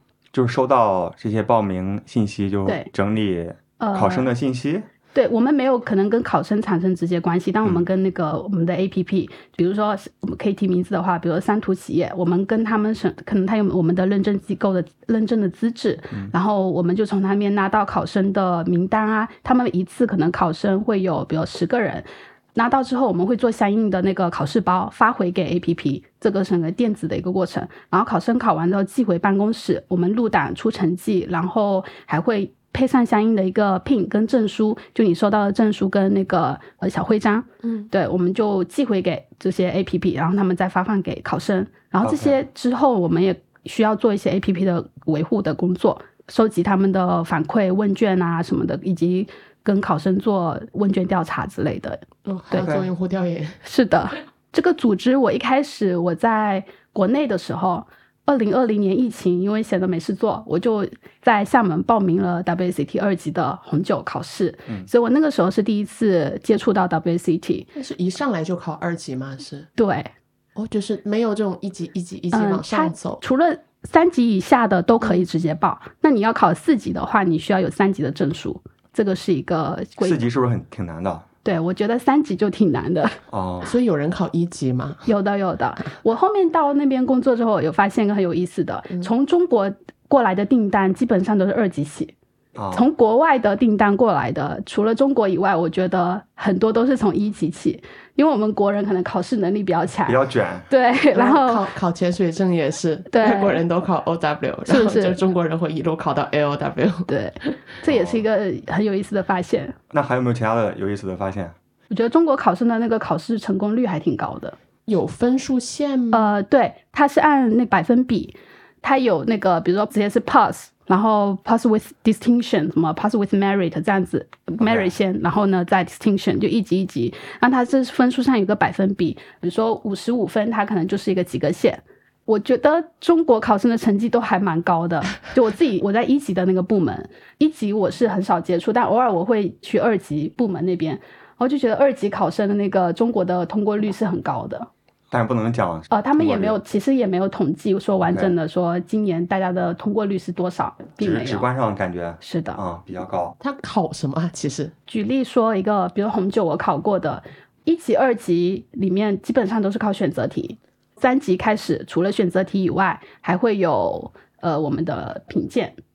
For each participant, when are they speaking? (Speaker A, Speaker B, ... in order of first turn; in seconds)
Speaker A: 0.3-4.9, 42.0-42.4, 52.6-52.9, 80.0-81.2, 83.3-83.7, 92.5-92.8, 100.0-100.7, 107.8-108.2, 109.9-111.5, 124.6-124.9, 145.1-146.6, 148.1-148.3, 151.0-153.3
Speaker B: 3.8-4.3, 5.1-52.7, 53.6-67.7, 69.8-70.1, 72.3-80.2, 81.4-83.2, 85.0-92.1, 92.7-101.7, 103.1-103.6, 104.7-105.2, 107.1-109.7, 111.9-114.5, 116.1-144.7, 145.9-151.5, 152.2-152.6, 154.9-165.8
Speaker C: 37.6-37.9, 52.2-53.6, 67.7-69.7, 70.5-73.2, 83.6-85.1, 101.1-107.6, 114.8-116.3, 153.4-154.7